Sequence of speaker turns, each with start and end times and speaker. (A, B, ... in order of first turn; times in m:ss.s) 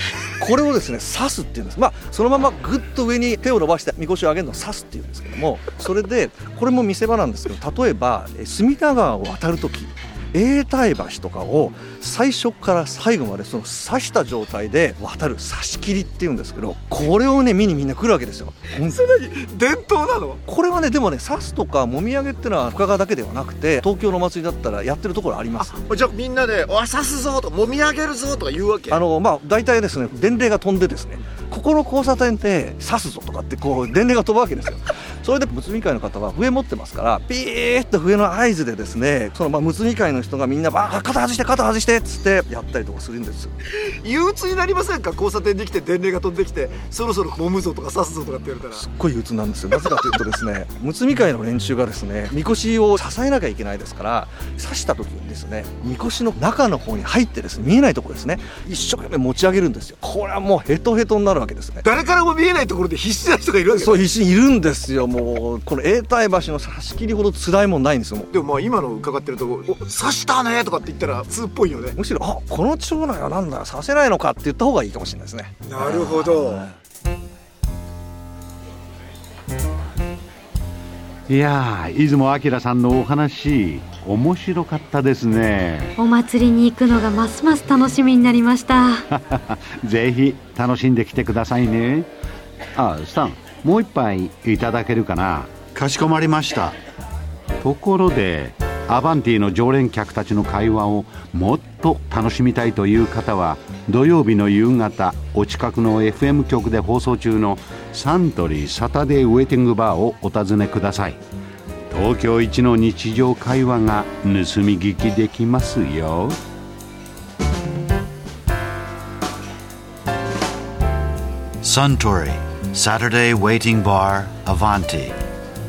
0:00.4-0:19.0 A
0:18.8-0:20.4 B
0:20.5-0:25.8 A
0:25.6-0:29.0 B
0:28.9-0:43.5 A
0:43.7-0:48.8 B
0:48.7-1:01.9 A
1:01.8-1:04.1 B
1:03.8-1:08.3 A
1:08.3-1:12.0 B
1:11.9-1:16.8 A
1:15.7-1:16.7 B
1:21.3-1:26.0 C
1:26.0-1:29.1 D
1:29.1-1:32.1 C
1:32.8-1:35.7 C
1:35.7-1:36.8 E
1:37.6-1:51.2 C
1:51.9-1:56.4 C
2:01.6-2:05.2 E